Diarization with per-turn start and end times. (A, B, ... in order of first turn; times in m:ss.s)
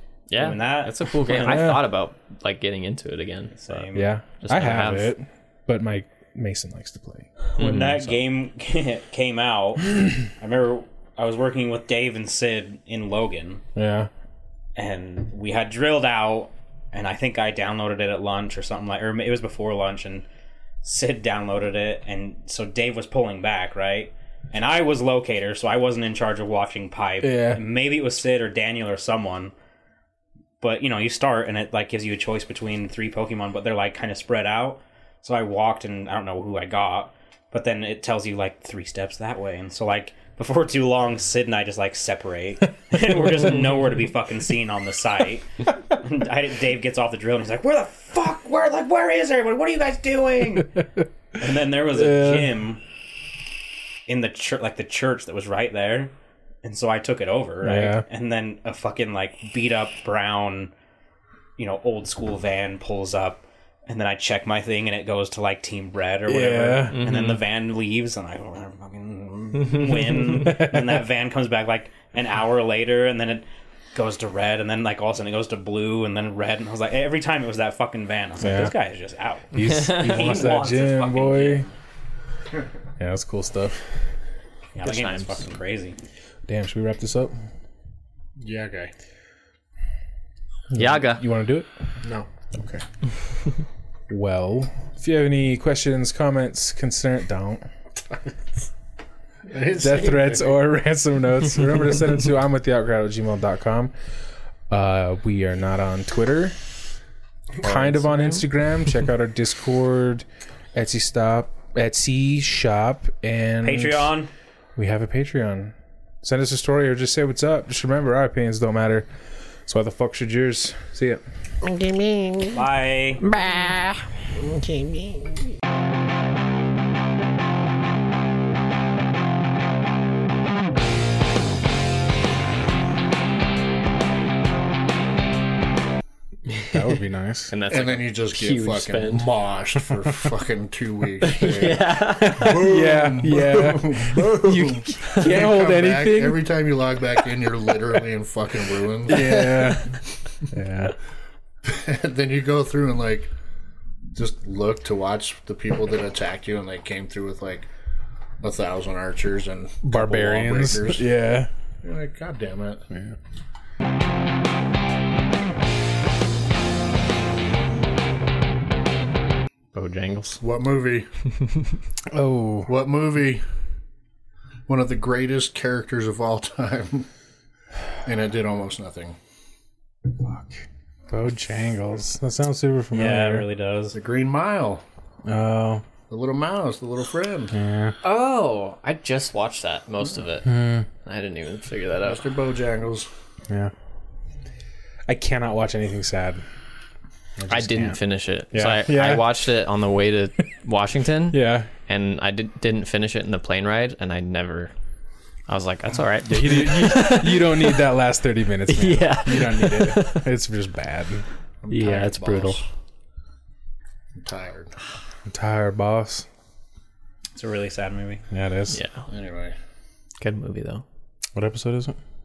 0:00.3-0:03.9 A
0:00.4-0:01.8 B
0:01.4-0:01.9 C
0:03.5-0:04.1 B
0:03.9-0:08.1 C
0:04.4-0:05.1 A
0:07.5-0:13.6 B
0:07.6-0:07.9 A
0:13.8-0:14.1 C
0:14.8-0:20.2 B
0:20.8-0:29.5 B
0:27.2-0:27.6 C
0:30.6-0:50.8 B
0:51.4-0:52.8 B
0:51.9-0:52.5 C
0:54.1-0:56.1 B
0:56.6-1:00.7 B
0:57.6-0:58.0 C
1:01.6-1:21.7 B
1:06.3-1:07.0 C
1:06.9-1:07.4 A
1:10.2-1:11.0 C
1:18.4-1:18.7 C
1:19.5-1:21.7 C
1:19.6-1:20.2 A
1:23.0-1:23.8 C
1:24.7-1:26.0 B
1:24.8-1:25.4 A
1:26.5-1:27.3 C
1:28.4-1:28.9 D
1:30.7-1:31.7 C
1:30.7-1:31.2 A
1:32.5-1:32.8 C
1:34.1-1:37.6 C
1:39.5-1:40.5 D
1:39.7-1:43.9 C
1:44.7-1:46.6 C
1:47.6-1:54.1 C
1:47.7-1:48.4 A
1:53.6-1:54.3 B
1:54.8-1:59.1 C
1:59.6-2:01.2 C
2:01.7-2:02.6 E
2:02.5-2:03.2 B
2:03.2-2:04.0 E
2:04.7-2:05.1 E
2:16.6-2:17.5 C
2:17.5-2:19.3 A
2:17.7-2:30.0 D
2:21.2-2:23.0 A
2:22.2-2:26.6 C
2:29.0-2:31.0 C
2:31.6-2:33.3 D
2:34.1-2:37.7 D
2:38.4-2:41.1 D
2:39.8-2:41.5 C
2:41.8-2:42.9 D
2:42.9-2:43.2 C
2:49.7-2:50.4 A
2:50.4-2:51.1 D
2:52.1-2:52.7 C
2:52.7-2:53.4 D
2:54.7-2:57.1 D
2:58.0-2:59.2 D
3:00.2-3:00.5 C
3:01.1-3:03.4 C
3:02.9-3:04.0 B
3:03.9-3:04.8 D
3:05.2-3:05.8 C
3:06.1-3:07.6 D
3:07.5-3:08.0 C
3:08.0-3:12.3 A
3:10.4-3:10.9 C
3:12.0-3:13.1 D
3:15.1-3:16.4 C
3:17.4-3:18.0 C
3:17.5-3:24.7 A
3:18.5-3:19.3 C
3:21.3-3:21.7 C
3:25.5-3:27.8 A
3:26.2-3:31.2 C
3:28.7-3:30.3 A
3:31.6-3:32.6 D
3:31.7-3:32.6 A
3:34.2-3:34.7 D
3:35.3-3:36.3 C
3:37.3-3:38.2 B
3:38.3-3:38.8 C
3:38.7-3:39.0 A
3:39.1-3:39.5 D
3:40.2-3:40.8 A
3:41.3-3:42.0 C